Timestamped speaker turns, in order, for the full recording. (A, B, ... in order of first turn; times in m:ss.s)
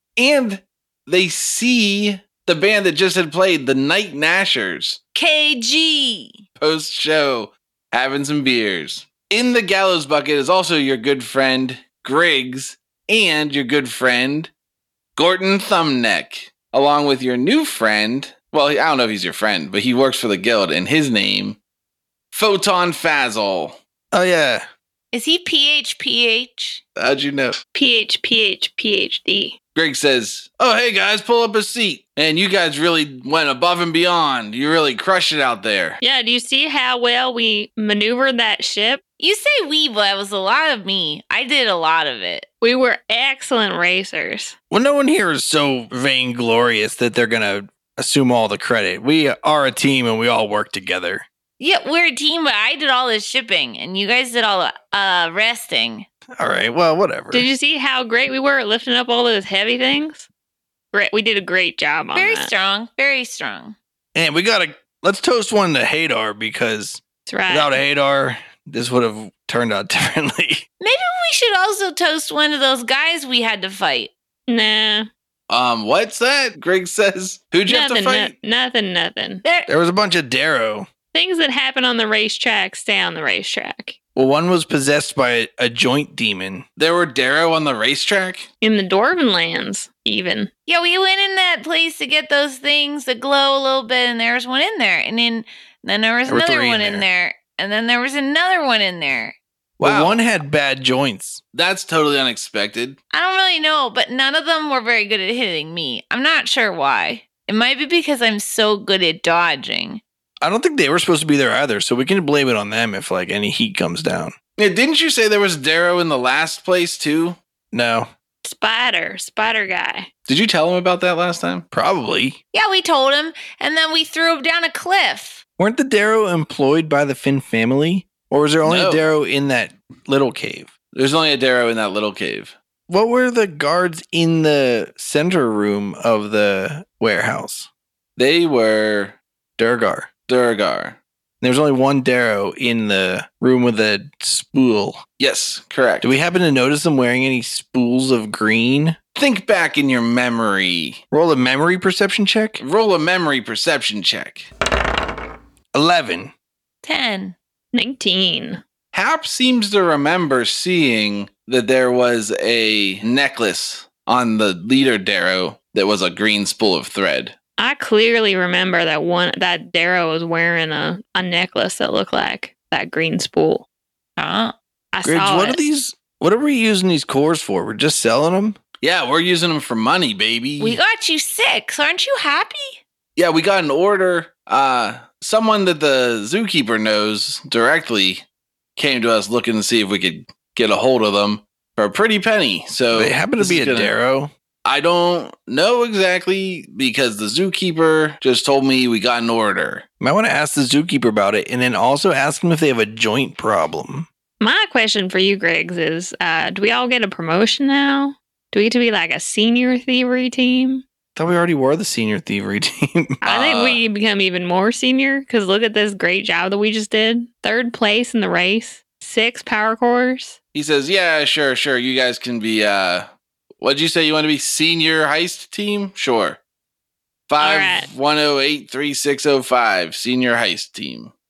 0:00.2-0:05.0 A
0:05.1-0:06.4 B
0:06.6-0:14.5 A
0:15.2-0:21.6 A
0:22.3-0:23.8 A
0:24.1-0:24.6 C
0:25.1-0:26.8 B
0:27.0-0:27.6 A
0:27.7-0:29.5 D
0:29.7-0:36.0 A
0:36.0-0:39.0 D
0:39.2-0:42.5 B
0:42.6-0:44.5 D
0:44.7-0:51.2 C
0:51.6-0:56.0 B
0:56.4-0:57.5 C
0:57.3-1:00.3 D
1:00.9-1:02.5 D
1:02.1-1:03.8 B
1:04.1-1:10.6 C
1:07.3-1:07.7 D
1:10.8-1:14.1 B
1:14.5-1:15.1 D
1:15.5-1:18.3 A
1:17.7-1:19.4 D
1:19.7-1:20.9 C
1:21.1-1:24.0 D
1:24.1-1:26.6 C
1:26.8-1:28.5 A
1:28.6-1:30.5 D
1:30.6-1:39.4 B
1:36.3-1:37.0 C
1:39.8-1:41.4 C
1:39.8-1:40.3 A
1:41.5-1:43.0 A
1:43.1-1:50.0 B
1:50.4-1:54.3 C
1:54.6-1:57.4 A
1:57.7-1:58.1 C
1:58.4-2:00.1 D
2:00.3-2:01.6 A
2:01.7-2:02.4 C
2:02.5-2:05.4 B
2:05.6-2:10.7 C
2:08.6-2:09.0 A
2:10.9-2:12.5 A
2:12.9-2:17.7 C
2:18.2-2:19.2 A
2:19.6-2:20.1 C
2:20.3-2:21.0 A
2:21.4-2:25.0 C
2:25.2-2:26.1 A
2:26.0-2:29.0 C
2:29.1-2:31.0 A
2:31.1-2:32.6 C
2:32.6-2:34.5 A
2:35.7-2:36.3 C
2:36.8-2:37.3 B
2:37.7-2:38.6 D
2:38.9-2:47.3 A
2:47.6-2:53.6 D
2:54.2-2:54.5 B
2:54.9-2:55.6 D
2:55.0-2:58.6 C
2:58.8-3:00.8 A
3:00.6-3:02.8 B
3:03.2-3:08.2 A
3:08.8-3:13.9 A
3:12.9-3:14.3 C
3:14.6-3:19.8 A
3:20.0-3:24.1 C
3:24.4-3:30.8 D
3:31.1-3:33.2 C
3:33.2-3:40.4 D
3:33.2-3:33.8 A
3:40.5-3:43.1 A
3:43.6-3:46.4 A
3:47.3-3:51.1 A
3:47.4-3:47.9 D